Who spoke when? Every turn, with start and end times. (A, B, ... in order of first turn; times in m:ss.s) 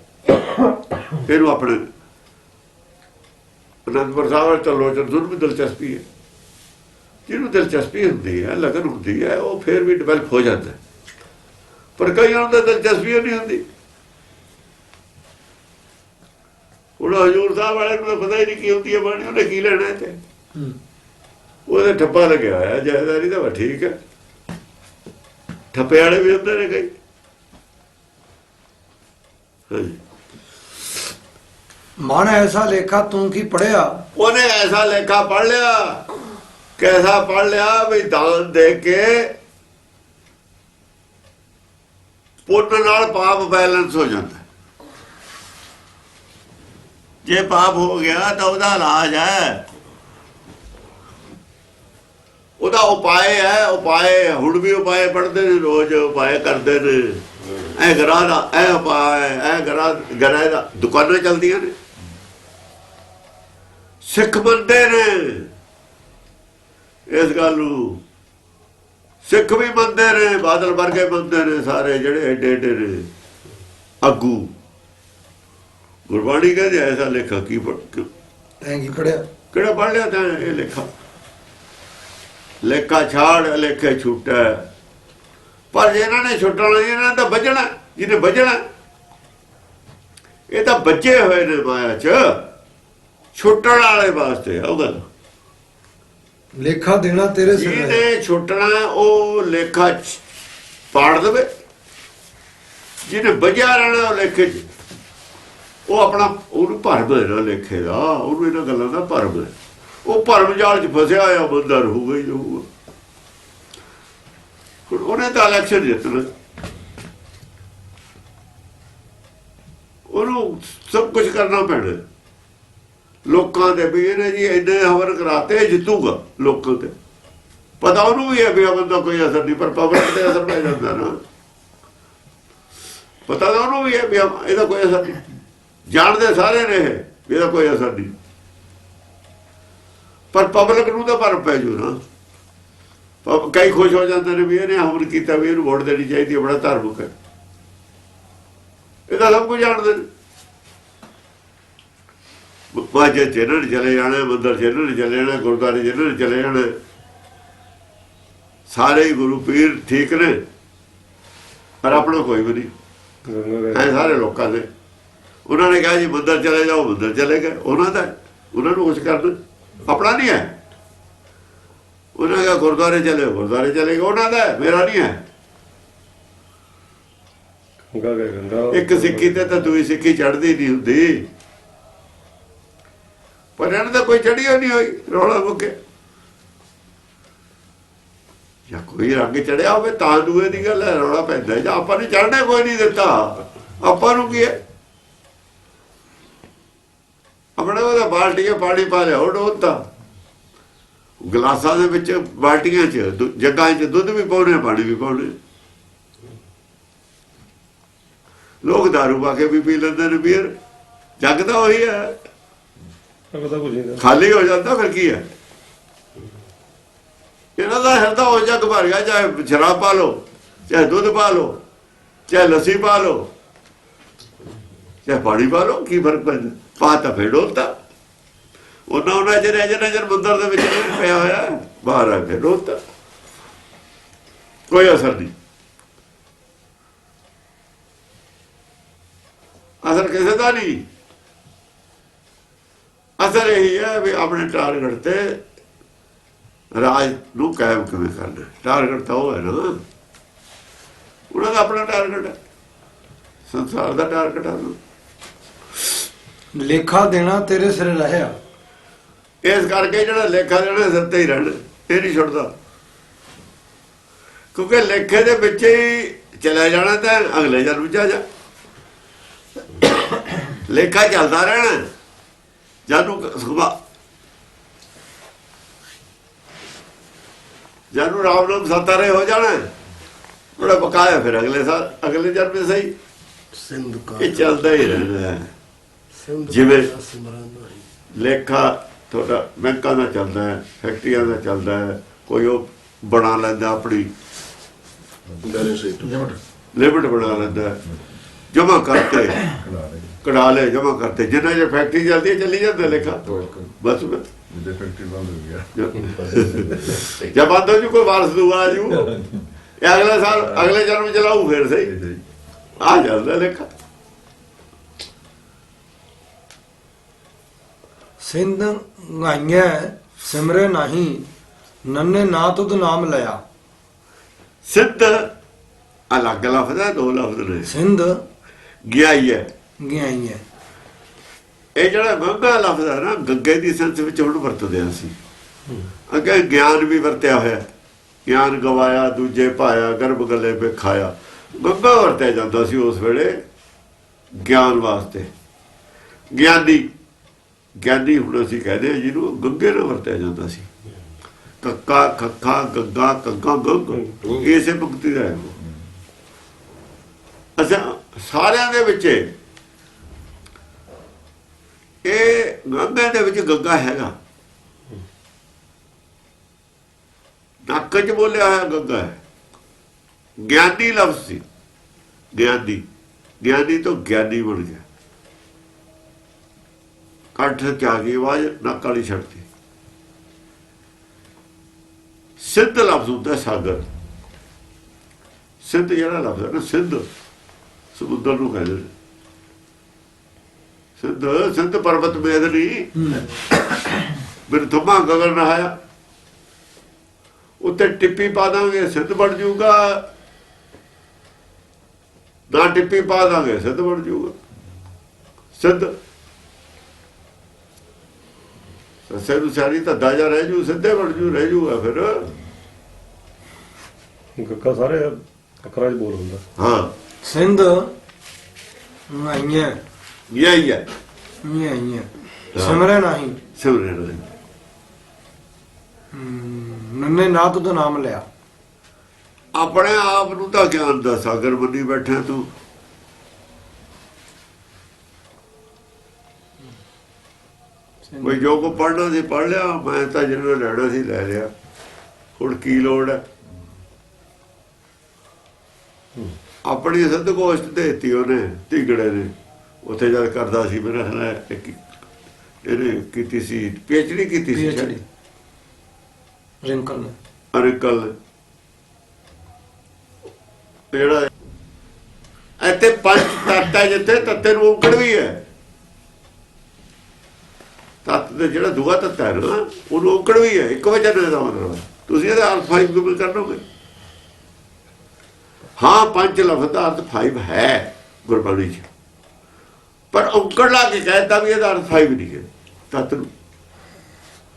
0:01.2-0:01.8 A
0:03.9-0:06.0 A
0:07.3-0:10.8 A
0:12.0-0:13.6 A
0:17.0-0:20.2 A
0:21.7-0:24.0 A
0:25.7-0:26.9 A
0:29.7-0:30.0 A
0:32.0-0:34.0 B
0:34.2-0:36.0 A
0:36.8-0:39.3 A
0:42.5-0:44.4 A
0:47.2-0:49.6 A
0:52.6-1:01.7 A
1:04.0-1:05.5 A
1:07.1-1:08.0 A
1:09.2-1:13.1 A
1:14.0-1:14.5 A
1:16.1-1:18.1 A
1:18.6-1:19.2 B
1:19.5-1:20.9 A
1:22.6-1:24.7 A
1:25.7-1:28.6 A
1:30.5-1:32.5 A
1:33.3-1:35.0 A
1:36.6-1:38.0 B
1:37.5-1:40.2 A
1:40.9-1:41.5 A
1:43.0-1:44.6 A
1:45.9-1:49.5 A
1:50.0-1:52.7 A
1:54.9-1:56.3 A
2:00.1-2:02.0 A
2:03.3-2:06.9 A
2:07.8-2:11.2 A
2:13.3-2:15.2 A
2:15.9-2:18.1 A
2:20.3-2:22.0 A
2:23.2-2:27.1 A
2:29.1-2:30.1 A
2:32.7-2:36.8 A
2:38.7-2:40.4 A
2:41.8-2:42.7 A
2:43.2-2:44.2 C
2:43.7-2:44.7 A
2:45.5-2:50.5 A
2:52.2-2:55.2 A
2:57.9-2:59.6 C
2:58.7-3:01.3 A
3:03.6-3:05.7 A
3:08.7-3:14.6 A
3:17.6-3:19.8 A
3:21.2-3:25.3 A
3:28.6-3:30.5 A
3:31.2-3:32.1 A
3:33.3-3:34.0 C
3:34.0-3:35.2 A
3:37.6-3:41.6 A
3:42.3-3:43.3 A
3:45.0-3:47.7 A
3:48.9-3:52.8 A
3:54.7-3:55.3 A
3:59.8-4:00.8 A
4:03.2-4:05.4 A
4:06.7-4:09.8 A
4:11.3-4:12.3 A
4:13.5-4:14.8 A
4:16.5-4:18.3 B
4:19.4-4:22.5 A
4:24.5-4:28.2 A
4:30.6-4:31.9 A
4:32.9-4:33.8 A
4:37.9-4:39.7 A
4:40.6-4:42.9 A
4:43.5-4:44.6 D
4:44.2-4:45.5 A
4:46.1-4:47.8 D
4:46.5-4:46.9 A
4:48.1-4:54.1 A
4:55.2-4:55.5 E
4:55.4-4:56.4 D
4:56.7-4:57.8 A
4:57.2-4:58.2 E
4:58.5-4:59.6 A
4:59.4-5:00.2 E
5:00.2-5:03.2 A
5:02.8-5:03.7 E
5:03.8-5:04.2 A
5:04.5-5:07.0 E
5:05.7-5:09.1 A
5:08.9-5:09.5 E
5:09.8-5:11.9 A
5:11.8-5:12.2 E
5:12.8-5:13.7 A
5:18.2-5:21.3 B
5:21.8-5:23.4 B
5:24.6-5:25.3 A
5:26.1-5:27.7 A
5:27.6-5:28.2 B
5:28.8-5:29.5 A
5:29.8-5:30.4 B
5:31.8-5:35.2 A
5:36.1-5:37.6 A
5:38.2-5:43.4 A
5:44.3-5:45.3 A
5:46.3-5:46.9 A
5:47.8-5:50.7 A
5:51.6-5:55.6 A
5:57.6-5:59.3 A
6:02.0-6:04.1 A
6:07.7-6:09.2 A
6:10.4-6:11.4 A
6:12.3-6:12.8 A
6:13.4-6:14.8 A
6:17.3-6:19.4 A
6:22.4-6:23.8 A
6:25.6-6:27.1 A
6:27.9-6:28.9 A
6:31.0-6:33.2 A
6:33.0-6:33.2 B
6:34.5-6:35.7 A
6:37.6-6:40.0 A
6:42.5-6:44.4 A
6:45.6-6:45.9 A
6:49.1-6:52.3 A
6:54.4-6:56.4 C
6:56.6-6:56.9 A
6:57.2-6:57.9 B
6:59.1-6:59.8 B
7:00.3-7:00.8 A
7:01.4-7:03.4 B
7:02.5-7:02.8 A
7:03.6-7:04.3 A
7:06.1-7:08.2 B
7:09.5-7:12.5 A
7:18.1-7:18.5 B
7:18.2-7:21.5 A
7:22.4-7:23.2 A
7:26.6-7:29.3 A
7:29.8-7:31.8 A
7:32.6-7:34.9 A
7:34.5-7:35.0 B
7:36.6-7:37.2 B
7:37.5-7:38.1 A
7:40.9-7:41.3 A
7:42.6-7:45.4 A
7:48.0-7:53.6 A
7:55.8-7:58.9 A
8:00.1-8:03.3 A